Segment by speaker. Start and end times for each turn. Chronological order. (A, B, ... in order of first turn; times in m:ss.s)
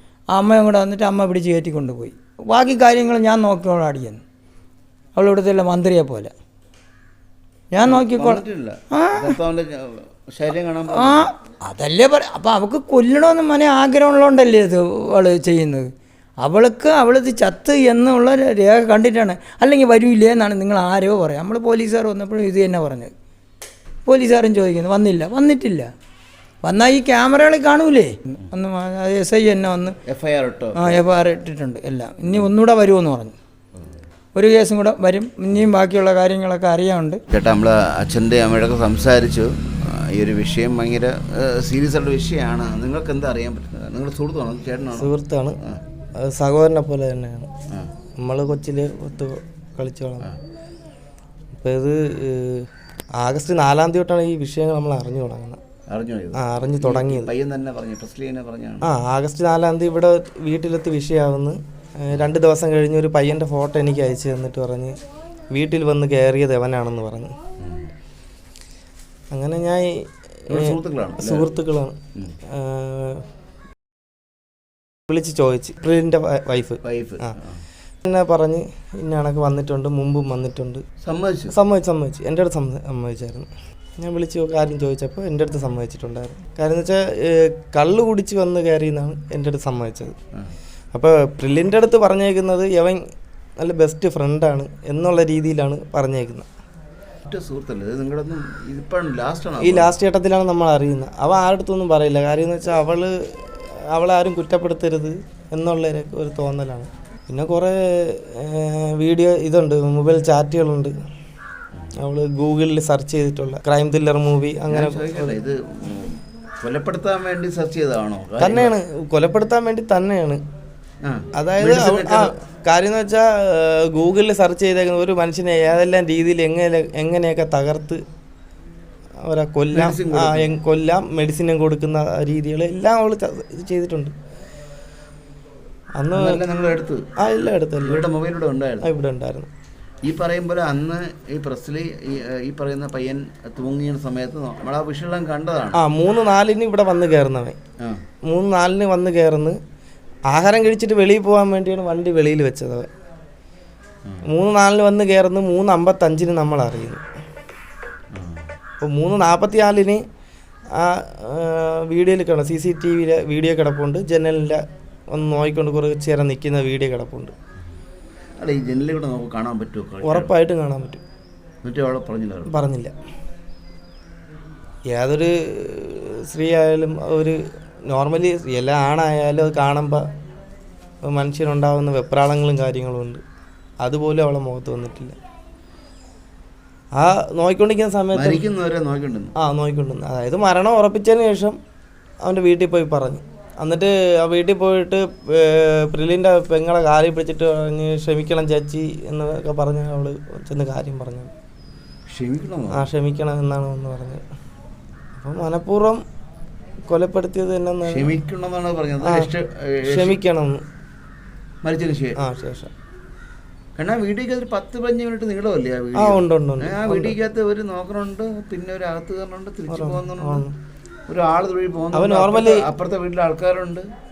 0:00.3-0:04.2 A
0:05.2-0:06.3 A
0:07.7-0:09.4 A
0:07.8-0:11.3 B
0:11.0-0:15.9 A
0:16.4-0:23.1 A
0:24.1-0:25.9 A
0:26.6-0:30.0 A
0:30.1-0:31.0 B
0:30.8-0:33.4 A
0:34.4-0:37.2 A
0:37.3-0:45.1 B
0:45.0-0:45.6 C
0:46.2-0:47.5 C
0:48.2-0:50.3 C
0:51.6-0:55.6 C
0:55.9-0:58.9 B
0:56.3-0:57.3 C
0:58.8-1:05.0 C
1:05.5-1:07.4 C
1:09.3-1:12.0 C
1:10.5-1:11.5 B
1:12.5-1:13.2 C
1:15.1-1:16.8 C
1:16.8-1:17.6 B
1:18.0-1:20.8 C
1:21.0-1:21.5 B
1:21.5-1:30.2 C
1:30.9-1:33.0 C
1:33.6-1:36.5 C
1:37.3-1:40.0 B
1:39.6-1:51.0 C
1:52.0-1:55.4 C
1:54.7-1:58.7 B
1:58.4-2:00.4 C
2:01.0-2:02.3 B
2:01.4-2:08.0 C
2:09.2-2:14.1 C
2:09.7-2:10.5 B
2:16.0-2:16.4 C
2:16.1-2:17.1 B
2:17.2-2:18.0 C
2:17.8-2:18.9 B
2:18.8-2:19.5 C
2:20.0-2:25.8 B
2:25.7-2:27.6 C
2:28.3-2:29.6 C
2:30.3-2:32.9 C
2:34.2-2:37.0 C
2:38.2-2:38.4 B
2:38.8-2:40.0 C
2:40.8-2:47.3 C
2:48.4-2:50.3 B
2:50.0-2:51.0 C
2:51.6-2:52.5 B
2:52.5-2:52.9 C
2:54.9-3:00.1 C
3:01.0-3:03.2 C
3:03.8-3:05.2 C
3:07.0-3:08.4 C
3:08.1-3:09.3 B
3:09.4-3:11.6 C
3:12.2-3:21.3 C
3:22.1-3:22.9 B
3:22.7-3:24.2 C
3:25.2-3:26.0 C
3:26.9-3:28.1 C
3:27.9-3:30.2 B
3:29.0-3:29.3 C
3:29.9-3:30.6 C
3:31.6-3:32.2 B
3:32.2-3:32.7 C
3:33.8-3:40.5 B
3:36.0-3:37.2 C
3:39.7-3:40.6 C
3:41.1-3:43.9 B
3:41.9-3:42.6 C